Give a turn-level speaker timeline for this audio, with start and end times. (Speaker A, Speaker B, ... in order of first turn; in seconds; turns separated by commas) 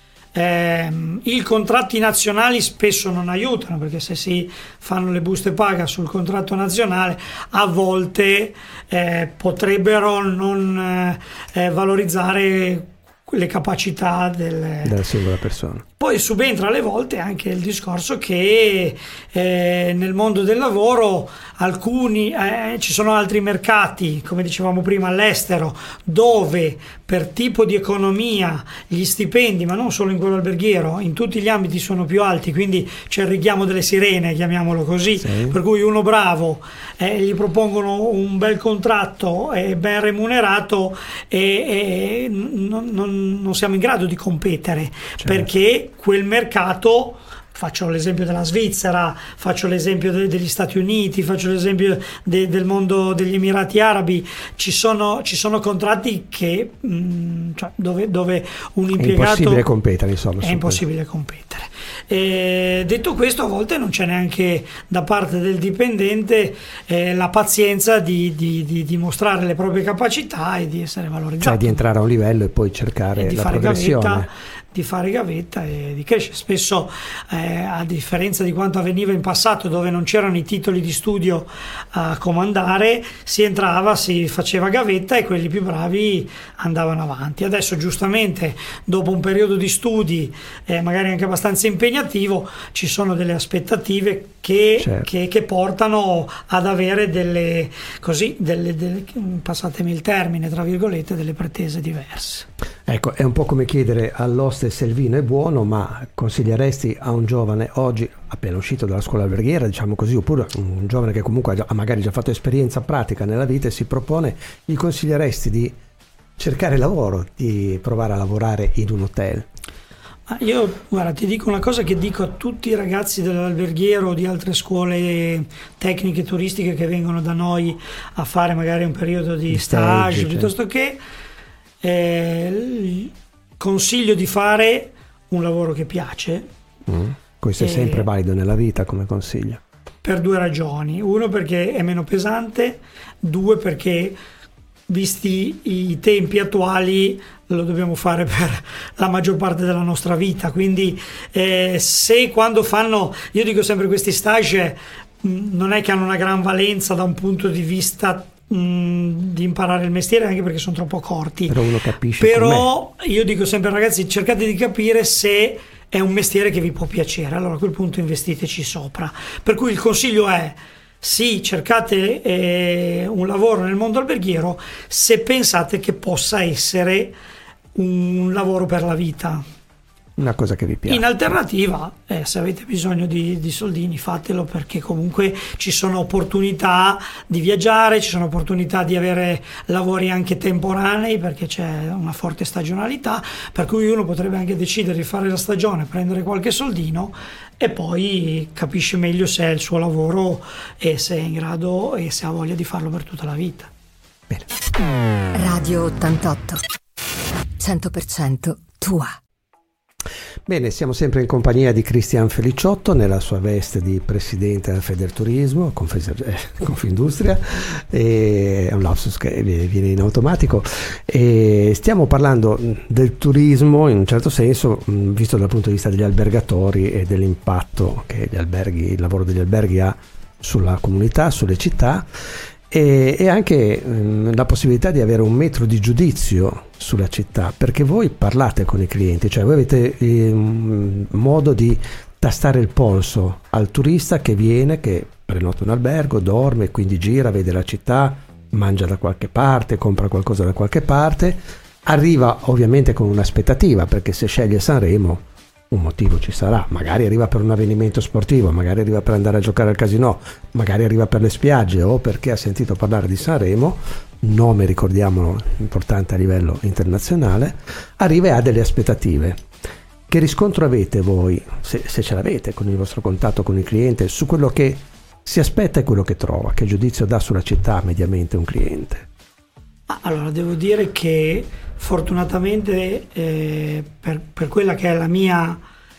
Speaker A: 0.3-15.0, Speaker B: 14.8-15.8, Speaker A: 16.0-59.6, Speaker B: 35.2-35.6, Speaker B: 45.2-45.5, Speaker B: 59.0-60.8, Speaker A: 60.4-71.8, Speaker B: 71.4-74.3, Speaker A: 73.2-102.5, Speaker B: 94.8-95.1, Speaker B: 102.9-115.8, Speaker B: 116.4-119.5, Speaker A: 120.3-131.0, Speaker B: 129.5-130.5, Speaker A: 131.8-136.5, Speaker B: 136.9-139.6, Speaker A: 137.6-138.1, Speaker A: 140.0-144.2, Speaker A: 144.9-161.6, Speaker B: 161.5-162.7, Speaker A: 162.2-177.2, Speaker A: 177.8-179.4, Speaker B: 180.2-181.1, Speaker A: 180.9-203.7, Speaker C: 205.3-206.6, Speaker C: 207.6-209.2, Speaker B: 210.5-232.1, Speaker B: 232.7-269.5, Speaker B: 270.1-279.1, Speaker A: 279.9-285.6